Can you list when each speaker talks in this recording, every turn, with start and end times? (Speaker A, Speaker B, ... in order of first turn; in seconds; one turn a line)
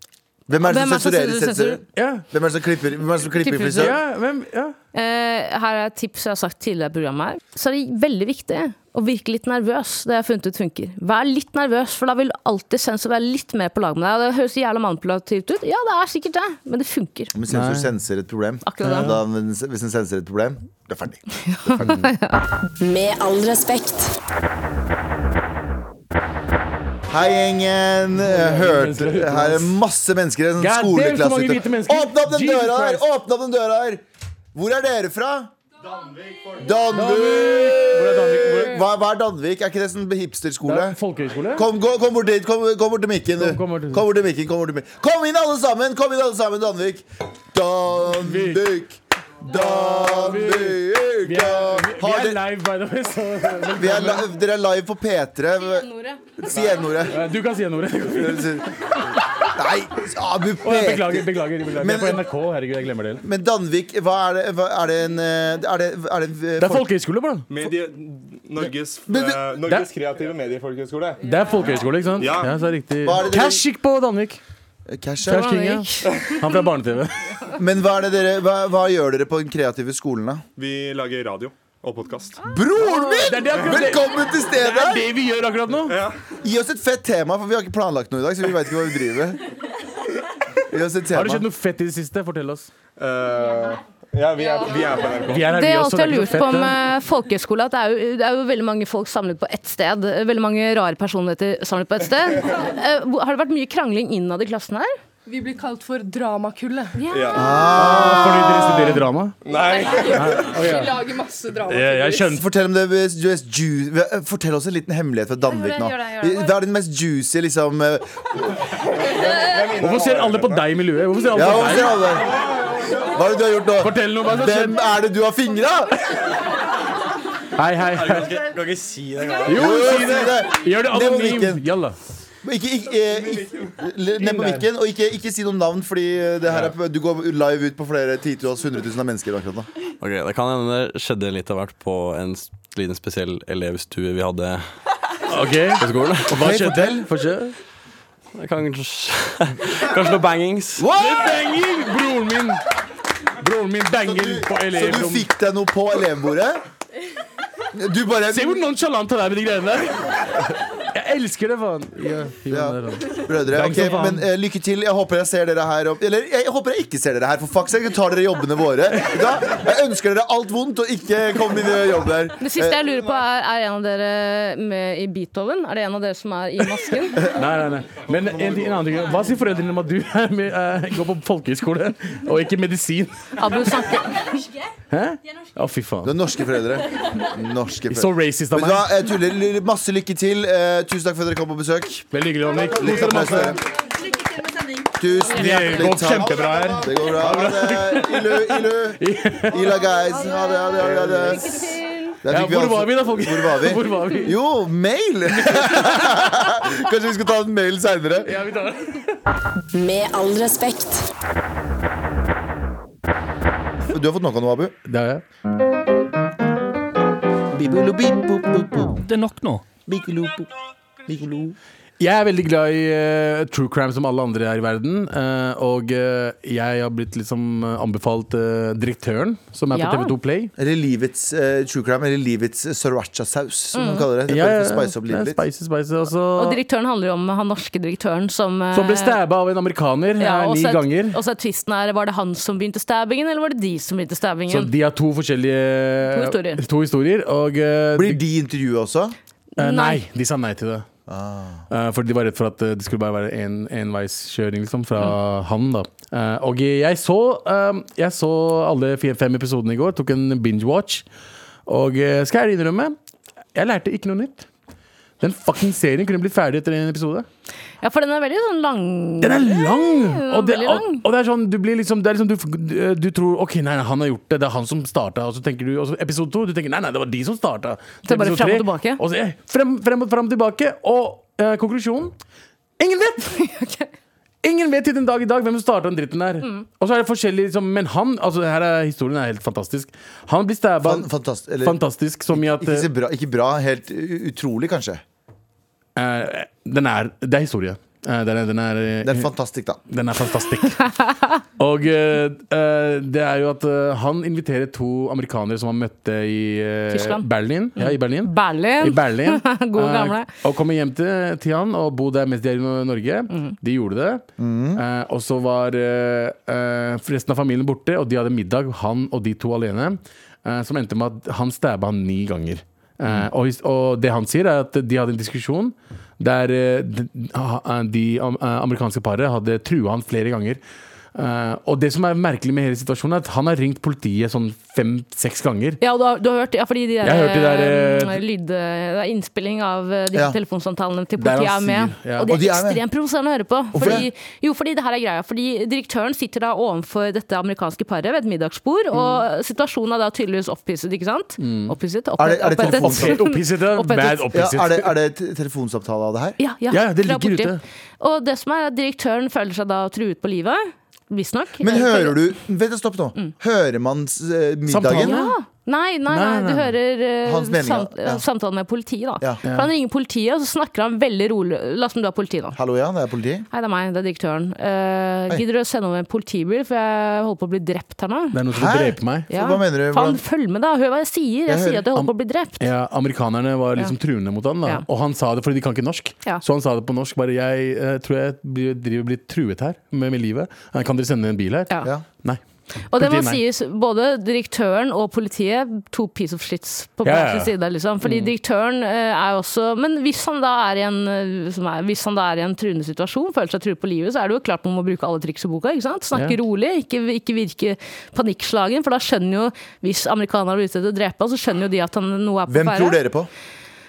Speaker A: 0.5-4.0
Speaker B: 0.6-1.8
Speaker C: 2.0-2.2
Speaker B: 3.4-4.0
Speaker C: 3.8-4.8
Speaker B: 4.9-17.3
Speaker A: 17.3-22.0
Speaker C: 17.5-17.9
Speaker B: 18.7-19.1
Speaker C: 18.8-19.2
Speaker B: 21.4-22.4
Speaker D: 22.8-24.2
Speaker A: 27.1-34.0
Speaker C: 28.2-29.8
Speaker C: 30.6-33.0
Speaker A: 34.5-35.5
Speaker A: 36.6-41.0
Speaker C: 36.9-38.8
Speaker C: 40.6-41.7
Speaker A: 41.5-52.4
Speaker C: 43.4-44.1
Speaker C: 48.2-48.7
Speaker C: 49.4-54.3
Speaker A: 53.8-57.2
Speaker B: 55.8-56.2
Speaker C: 57.1-59.0
Speaker A: 58.1-58.7
Speaker A: 59.5-62.2
Speaker C: 60.6-63.2
Speaker A: 63.2-66.9
Speaker C: 66.6-67.5
Speaker E: 67.5-71.3
Speaker A: 69.1-69.4
Speaker C: 71.2-74.4
Speaker E: 72.2-72.6
Speaker A: 73.0-73.6
Speaker A: 74.9-75.5
Speaker C: 75.2-77.3
Speaker B: 75.3-76.5
Speaker A: 77.6-80.4
Speaker E: 80.6-82.5
Speaker A: 82.5-85.1
Speaker C: 82.8-86.0
Speaker E: 85.9-86.2
Speaker A: 86.4-89.4
Speaker A: 90.7-91.5
Speaker C: 91.1-92.7
Speaker E: 93.0-95.5
Speaker C: 95.3-96.8
Speaker B: 95.5-104.9
Speaker F: 105.3-107.0
Speaker E: 107.1-107.6
Speaker A: 107.3-109.0
Speaker C: 107.6-109.4
Speaker E: 109.5-110.7
Speaker C: 110.1-111.1
Speaker F: 110.8-112.2
Speaker C: 111.6-112.5
Speaker A: 112.3-118.6
Speaker E: 118.9-120.7
Speaker C: 119.8-122.2
Speaker A: 121.3-122.4
Speaker A: 122.9-126.0
Speaker C: 123.8-124.8
Speaker C: 127.6-128.6
Speaker G: 128.0-129.4
Speaker C: 129.3-132.0
Speaker A: 129.5-131.7
Speaker A: 132.4-139.7
Speaker C: 134.2-134.6
Speaker G: 140.0-144.7
Speaker C: 145.3-147.6
Speaker G: 145.8-146.3
Speaker A: 146.3-147.1
Speaker G: 148.3-150.8
Speaker C: 150.8-152.6
Speaker A: 150.8-151.4
Speaker C: 153.4-155.3
Speaker A: 154.0-156.6
Speaker A: 157.7-158.7
Speaker C: 158.3-164.3
Speaker A: 162.5-173.0
Speaker B: 172.4-177.2
Speaker C: 177.2-183.3
Speaker B: 183.4-184.4
Speaker C: 184.9-186.1
Speaker A: 186.0-192.1
Speaker C: 187.9-189.0
Speaker C: 192.1-193.6
Speaker A: 192.6-193.6
Speaker A: 195.0-208.3
Speaker C: 195.3-199.8
Speaker B: 200.2-202.2
Speaker C: 202.3-204.4
Speaker C: 205.3-206.4
Speaker C: 208.2-209.1
Speaker D: 209.7-211.1
Speaker A: 213.9-214.7
Speaker C: 214.9-215.2
Speaker A: 217.5-219.1
Speaker A: 219.9-220.5
Speaker A: 221.1-221.6
Speaker C: 222.0-230.5
Speaker B: 229.7-230.1
Speaker A: 230.6-235.4
Speaker B: 233.7-234.1
Speaker C: 234.3-236.6
Speaker B: 236.4-239.2
Speaker C: 238.7-241.2
Speaker B: 240.2-244.7
Speaker C: 244.5-248.2
Speaker B: 246.1-246.6
Speaker A: 247.9-249.2
Speaker B: 249.6-250.0
Speaker C: 249.6-250.9
Speaker A: 251.1-251.7
Speaker C: 251.7-261.1
Speaker C: 261.7-262.9
Speaker C: 263.6-264.5
Speaker C: 265.2-267.3
Speaker B: 267.8-271.0
Speaker C: 269.2-282.1
Speaker B: 278.1-279.0
Speaker C: 282.8-283.3
Speaker B: 283.3-283.9
Speaker C: 284.4-291.1
Speaker A: 290.8-291.8
Speaker C: 291.6-292.9
Speaker A: 292.3-295.0
Speaker C: 296.0-299.3
Speaker A: 299.0-299.8
Speaker C: 299.9-301.0
Speaker B: 300.8-301.4
Speaker C: 301.6-314.2
Speaker B: 306.9-307.2
Speaker B: 307.8-310.3
Speaker A: 314.4-314.8
Speaker C: 314.8-330.6
Speaker C: 331.1-335.8
Speaker B: 335.8-354.2
Speaker C: 337.0-338.2
Speaker C: 341.2-342.3
Speaker A: 342.3-342.8
Speaker C: 343.8-344.0
Speaker A: 343.8-344.1
Speaker C: 351.4-351.7
Speaker A: 352.2-353.2
Speaker C: 352.6-354.9
Speaker A: 354.3-356.4
Speaker B: 356.4-362.2
Speaker C: 356.7-357.6
Speaker A: 361.6-365.2
Speaker C: 364.7-365.4
Speaker B: 365.0-372.6
Speaker C: 366.1-366.7
Speaker A: 367.2-368.2
Speaker C: 369.4-369.7
Speaker A: 372.6-373.5
Speaker B: 373.5-378.4
Speaker C: 378.3-379.3
Speaker A: 378.5-380.2
Speaker B: 379.3-382.6
Speaker A: 381.5-381.8
Speaker C: 382.6-392.4
Speaker B: 392.9-413.0
Speaker C: 392.9-393.4
Speaker C: 397.1-398.3
Speaker A: 412.5-413.3